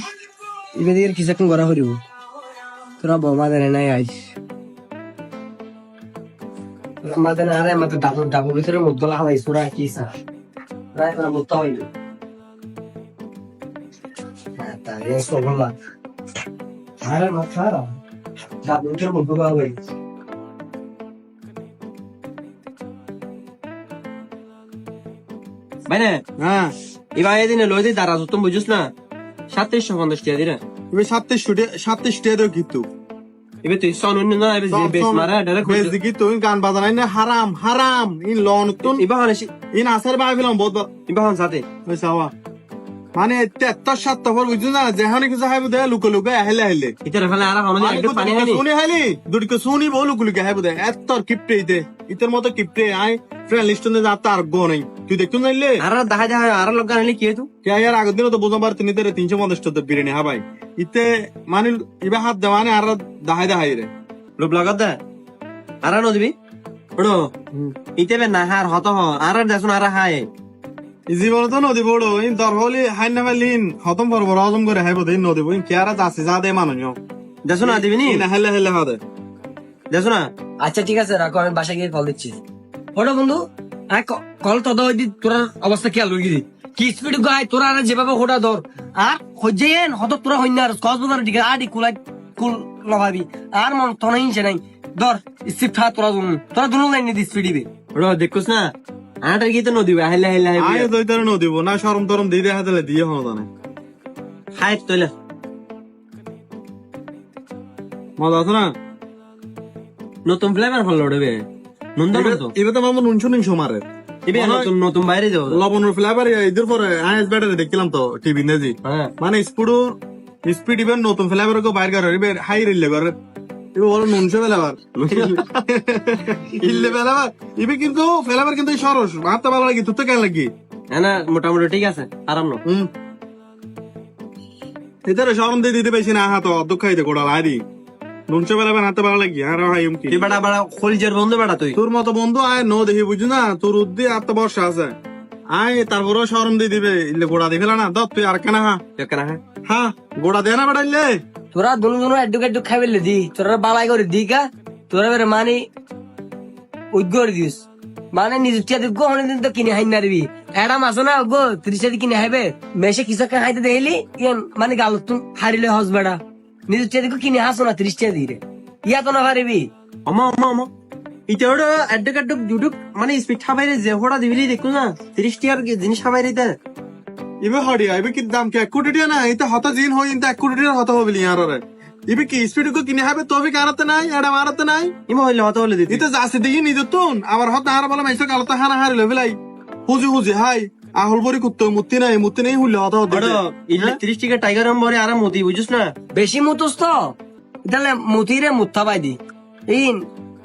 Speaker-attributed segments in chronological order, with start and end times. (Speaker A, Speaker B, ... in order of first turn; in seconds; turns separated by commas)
Speaker A: 0.7-2.0, Speaker A: 3.0-4.4, Speaker A: 7.0-10.1, Speaker A: 10.9-11.9, Speaker A: 14.6-15.8, Speaker A: 17.0-18.0, Speaker A: 18.6-19.8, Speaker B: 25.9-26.2, Speaker C: 26.4-26.7, Speaker B: 27.1-28.9, Speaker B: 29.5-30.6, Speaker C: 30.9-32.9, Speaker B: 33.6-36.0, Speaker C: 34.7-39.0, Speaker B: 38.9-39.5, Speaker C: 39.7-40.9, Speaker B: 41.1-41.7, Speaker C: 41.9-42.3, Speaker C: 43.1-47.0, Speaker B: 47.0-48.6, Speaker C: 47.8-55.8, Speaker B: 55.8-57.5, Speaker C: 57.6-63.9, Speaker B: 64.4-65.0, Speaker B: 65.8-66.3, Speaker B: 67.0-70.3, Speaker C: 71.1-77.0, Speaker B: 77.5-78.2, Speaker C: 77.6-79.0, Speaker B: 79.9-80.3, Speaker A: 80.6-82.4, Speaker A: 83.0-97.7, Speaker B: 98.0-100.9, Speaker C: 100.6-103.5, Speaker B: 104.6-105.1, Speaker C: 108.2-108.8, Speaker B: 110.3-112.5, Speaker C: 112.1-114.7, Speaker B: 114.3-115.6, Speaker C: 115.5-123.1, Speaker B: 118.8-119.1, Speaker C: 123.7-130.5, Speaker B: 125.1-125.4, Speaker B: 126.6-126.9, Speaker B: 130.9-132.6, Speaker C: 132.7-132.9, Speaker C: 135.1-137.6, Speaker C: 138.3-140.3, Speaker B: 140.1-141.8, Speaker C: 141.8-144.9, Speaker C: 145.5-148.8, Speaker B: 149.0-149.4, Speaker C: 149.7-151.2, Speaker A: 151.5-155.7, Speaker A: 156.9-169.7, Speaker B: 170.1-170.7, Speaker B: 171.3-176.6, Speaker C: 177.4-184.9, Speaker B: 185.1-186.1, Speaker C: 185.9-189.4, Speaker C: 189.9-194.0, Speaker B: 193.1-195.9, Speaker A: 196.1-200.1